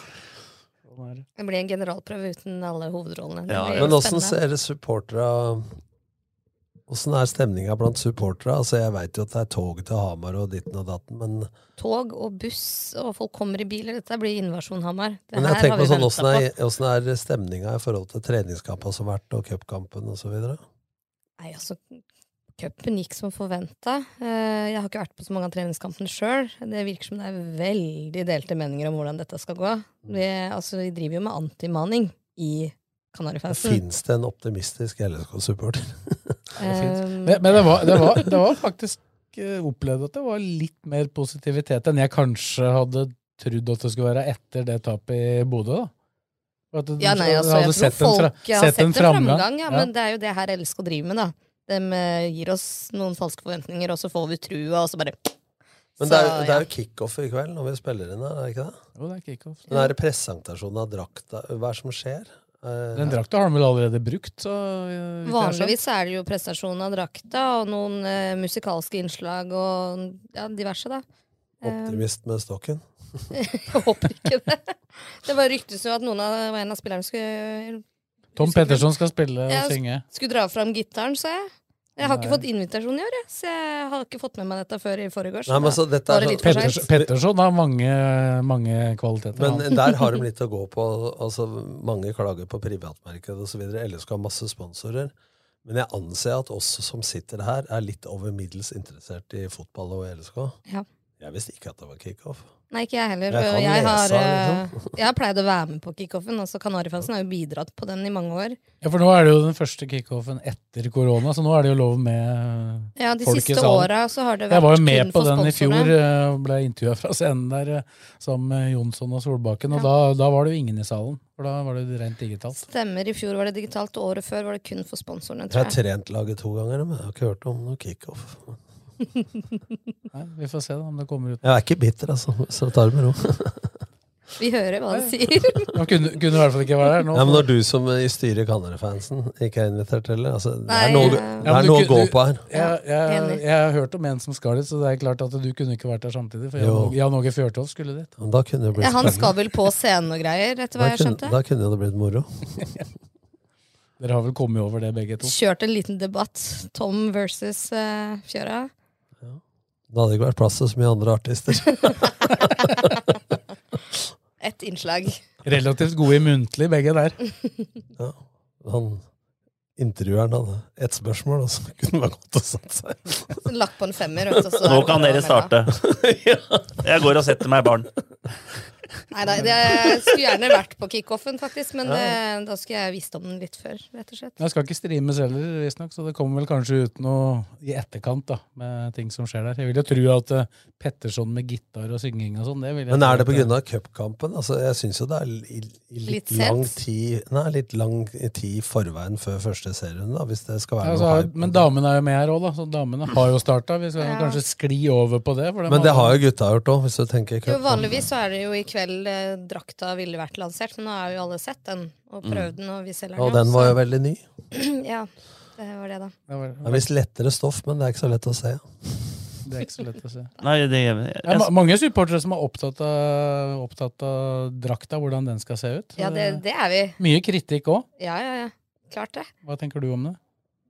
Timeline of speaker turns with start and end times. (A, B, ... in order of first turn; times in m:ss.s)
0:00.9-0:01.2 A
0:01.4-0:04.4 B
0:03.5-0:03.9 C
0:03.8-0:05.8 D
0:06.9-0:11.5 D
0:11.8-0:16.4 B
0:15.3-0:20.6 D
0:21.4-0:22.0 B
0:22.6-0:33.8 B
0:33.5-0:36.5 D
0:36.6-0:37.9 B
0:36.6-0:45.9 A
0:46.7-0:49.9 A
0:47.0-0:55.3 B
0:56.0-0:56.6 B
0:56.0-0:58.8 D
0:59.0-0:59.7 A
0:59.7-1:03.2 D
1:02.9-1:05.7 A
1:05.2-1:11.0 B
1:11.6-1:12.0 B
1:11.6-1:13.3 D
1:13.4-1:17.8 B
1:18.4-1:20.0 A
1:18.4-1:18.9 B
1:19.5-1:26.8 B
1:22.0-1:22.4 A
1:25.5-1:27.1 D
1:26.4-1:29.7 A
1:29.3-1:35.1 D
1:35.6-1:40.6 D
1:41.2-1:42.5 D
1:42.7-1:48.6 B
1:43.3-1:44.9 D
1:48.8-1:53.9 A
1:53.0-1:55.9 B
1:54.5-2:02.6 A
2:02.7-2:05.7 B
2:05.5-2:08.6 D
2:10.1-2:11.4 A
2:11.4-2:13.8 D
2:14.4-2:15.8 B
2:15.7-2:17.4 A
2:17.1-2:22.4 D
2:20.7-2:21.5 B
2:21.0-2:28.1 A
2:22.5-2:23.4 B
2:26.6-2:26.9 D
2:28.2-2:29.3 D
2:28.8-2:31.3 B
2:30.8-2:32.7 D
2:34.0-2:35.3 A
2:35.2-2:38.7 B
2:39.2-2:42.9 D
2:42.4-2:42.9 B
2:44.4-2:45.2 B
2:45.4-2:47.2 A
2:48.0-2:49.0 D
2:49.8-2:53.4 D
2:53.4-2:55.5 B
2:54.3-2:55.0 D
2:54.6-2:55.9 C
2:55.7-2:57.1 D
2:56.8-2:57.9 C
2:59.1-3:04.4 B
2:59.3-2:59.8 D
3:01.8-3:02.1 D
3:04.4-3:13.5 A
3:12.9-3:21.7 D
3:16.0-3:16.8 B
3:20.8-3:26.2 A
3:24.0-3:24.4 B
3:25.7-3:28.0 D
3:27.4-3:33.8 B
3:32.2-3:32.5 C
3:33.2-3:34.2 D
3:34.5-3:36.1 B
3:36.3-3:36.8 A
3:36.6-3:39.3 D
3:39.4-3:40.3 A
3:40.4-3:41.5 C
3:41.2-3:46.4 A
3:46.0-3:47.0 B
3:47.0-3:47.9 A
3:48.0-3:49.3 B
3:49.4-3:50.2 A